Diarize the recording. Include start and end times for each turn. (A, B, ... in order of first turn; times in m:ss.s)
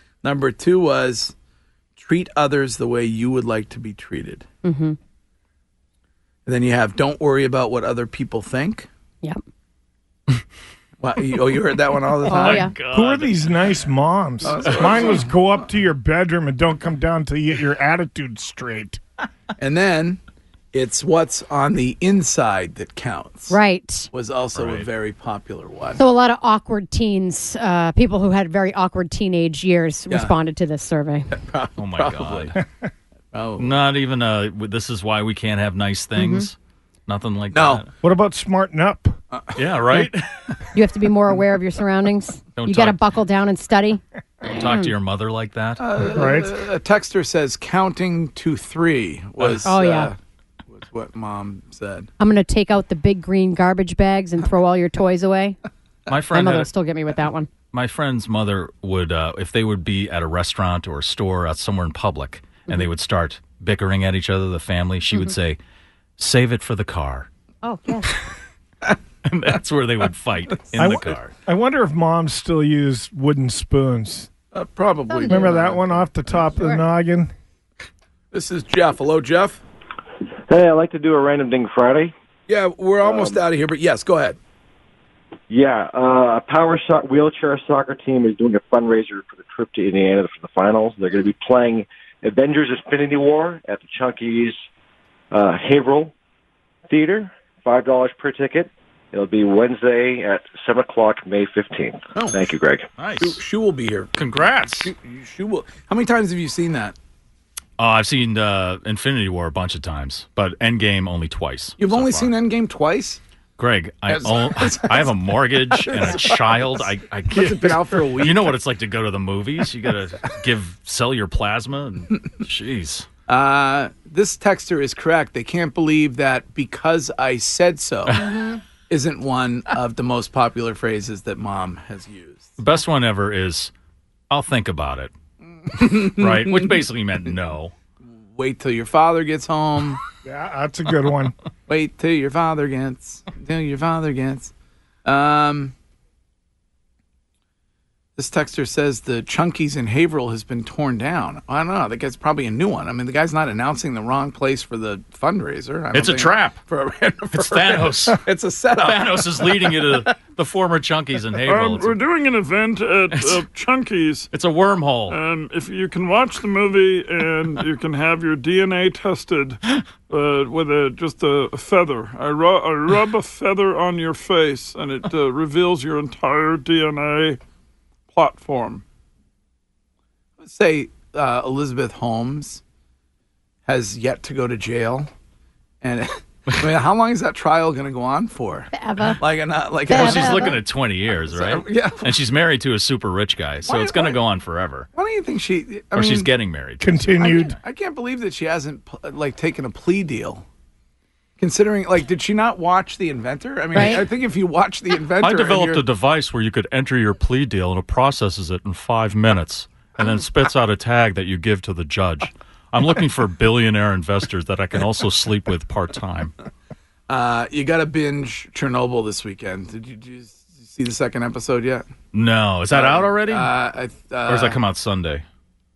0:00.2-0:01.3 A
0:02.0-0:04.4 A
0:04.6-0:05.0 B
0:06.4-0:08.9 A
0:11.0-0:12.7 A
0:12.2-0:12.7 B
0:12.2-0:13.8 C
0:12.8-0:19.0 D
0:14.4-0:15.6 A
0:14.4-0:15.1 C
0:19.6-0:20.2 A
0:20.7-0:23.6 A
0:23.5-0:24.1 B
0:24.1-0:26.0 A
0:24.5-0:24.9 C
0:26.0-0:31.3 B
0:30.1-0:30.3 A
0:31.3-0:32.6 A
0:31.8-0:32.6 C
0:33.3-0:33.7 A
0:33.6-0:36.6 C
0:36.2-0:36.5 B
0:37.1-0:37.9 C
0:37.5-0:37.8 A
0:38.0-0:39.2 D
0:39.3-0:40.1 A
0:39.5-0:40.4 C
0:40.7-0:44.9 B
0:42.6-0:43.0 C
0:44.4-0:45.8 C
0:45.8-0:50.2 A
0:46.0-0:46.5 D
0:49.6-0:50.1 B
0:50.7-0:52.1 A
0:52.2-0:55.6 B
0:56.1-0:56.7 C
0:56.3-0:57.5 B
0:57.7-1:05.6 C
1:06.2-1:07.3 C
1:07.6-1:08.2 B
1:09.2-1:11.3 C
1:10.8-1:14.3 D
1:14.5-1:16.4 A
1:15.1-1:15.6 B
1:15.3-1:17.3 D
1:16.5-1:16.8 B
1:18.3-1:19.6 A
1:20.5-1:22.1 E
1:22.5-1:24.4 A
1:23.0-1:23.4 E
1:25.5-1:34.6 E
1:35.3-1:36.1 E
1:36.9-1:42.9 E
1:42.1-1:42.4 A
1:43.0-1:43.4 C
1:43.2-1:47.0 A
1:44.2-1:44.9 C
1:47.8-1:52.3 C
1:51.8-1:53.2 A
1:53.6-2:03.1 C
1:54.1-1:58.5 A
2:03.3-2:08.3 A
2:08.1-2:08.3 C
2:08.2-2:08.6 B
2:08.9-2:12.6 A
2:12.6-2:13.7 C
2:14.3-2:15.1 C
2:15.6-2:16.8 A
2:16.0-2:17.7 C
2:18.3-2:20.0 A
2:20.2-2:21.3 D
2:21.7-2:24.5 A
2:25.0-2:25.7 A
2:28.2-2:40.1 A
2:35.9-2:36.6 C
2:37.3-2:38.2 C
2:38.8-2:42.0 C
2:41.4-2:44.3 F
2:43.1-2:43.4 C
2:44.3-2:45.2 C
2:45.1-2:57.4 F
2:58.1-2:58.8 F
3:00.4-3:02.6 A
3:03.6-3:05.1 A
3:05.8-3:10.6 A
3:08.7-3:09.2 B
3:09.9-3:10.6 B
3:09.9-3:14.9 C
3:11.3-3:12.1 A
3:13.6-3:14.2 A
3:14.9-3:16.3 A
3:15.9-3:17.6 C
3:16.8-3:17.6 D
3:17.2-3:20.4 A
3:21.4-3:25.8 A
3:23.7-3:24.0 B
3:25.2-3:36.3 C
3:37.1-3:41.8 A
3:42.1-3:43.5 C
3:42.7-3:44.6 A
3:44.3-3:45.2 C